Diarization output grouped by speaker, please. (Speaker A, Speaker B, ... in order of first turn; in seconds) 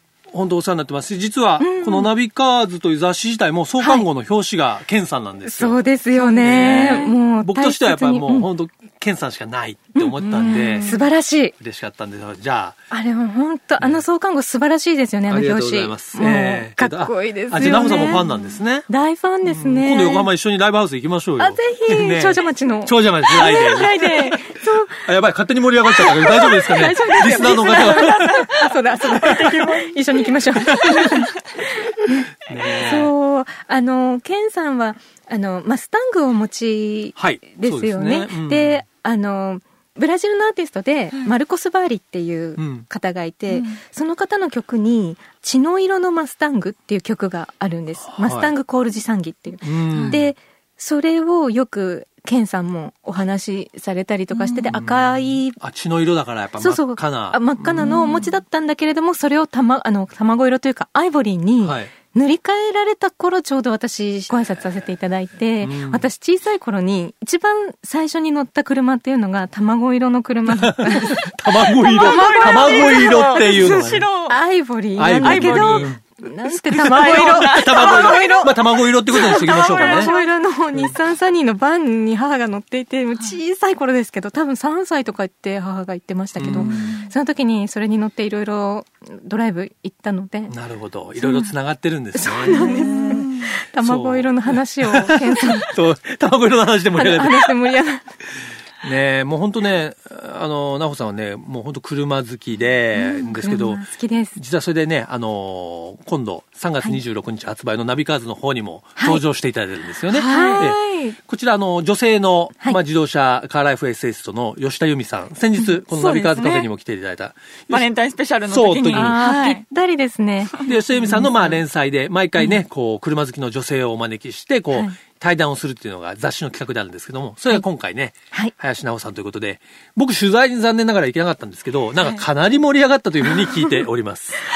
Speaker A: 0.3-11.0, 11.6-12.8, 15.3-18.9, 19.5-28.5, 29.1-29.6, 30.6-31.3, 32.4-33.1, 37.1-38.8, 42.6-42.9, 48.0-48.5, 49.6-50.3, 54.7-58.2, 61.6-61.9, 65.6-66.0, 70.5-74.1, 75.0-76.0, 76.8-80.1, 86.4-87.0, 90.5-93.2, 93.8-97.5, 98.8-117.9, 118.5-119.2, 120.6-134.4
Speaker B: 1.6-2.1, 3.8-4.1, 5.4-8.5, 9.9-11.5, 12.9-18.3, 18.9-20.3, 21.4-25.1, 25.8-55.6, 56.6-78.5, 79.1-90.5, 91.2-91.5, 92.1-95.7, 96.9-98.1, 102.9-104.3, 109.0-109.2, 110.2-111.2, 118.9-121.6
Speaker C: 6.2-7.1, 10.5-10.9, 27.2-29.9, 43.5-43.8, 49.9-50.2, 54.3-54.7, 57.8-58.3, 71.9-74.4, 75.1-75.9, 76.5-78.5, 79.1-80.3, 86.5-87.1, 92.5-93.5, 110.1-110.7, 115.6-116.7, 117.7-119.6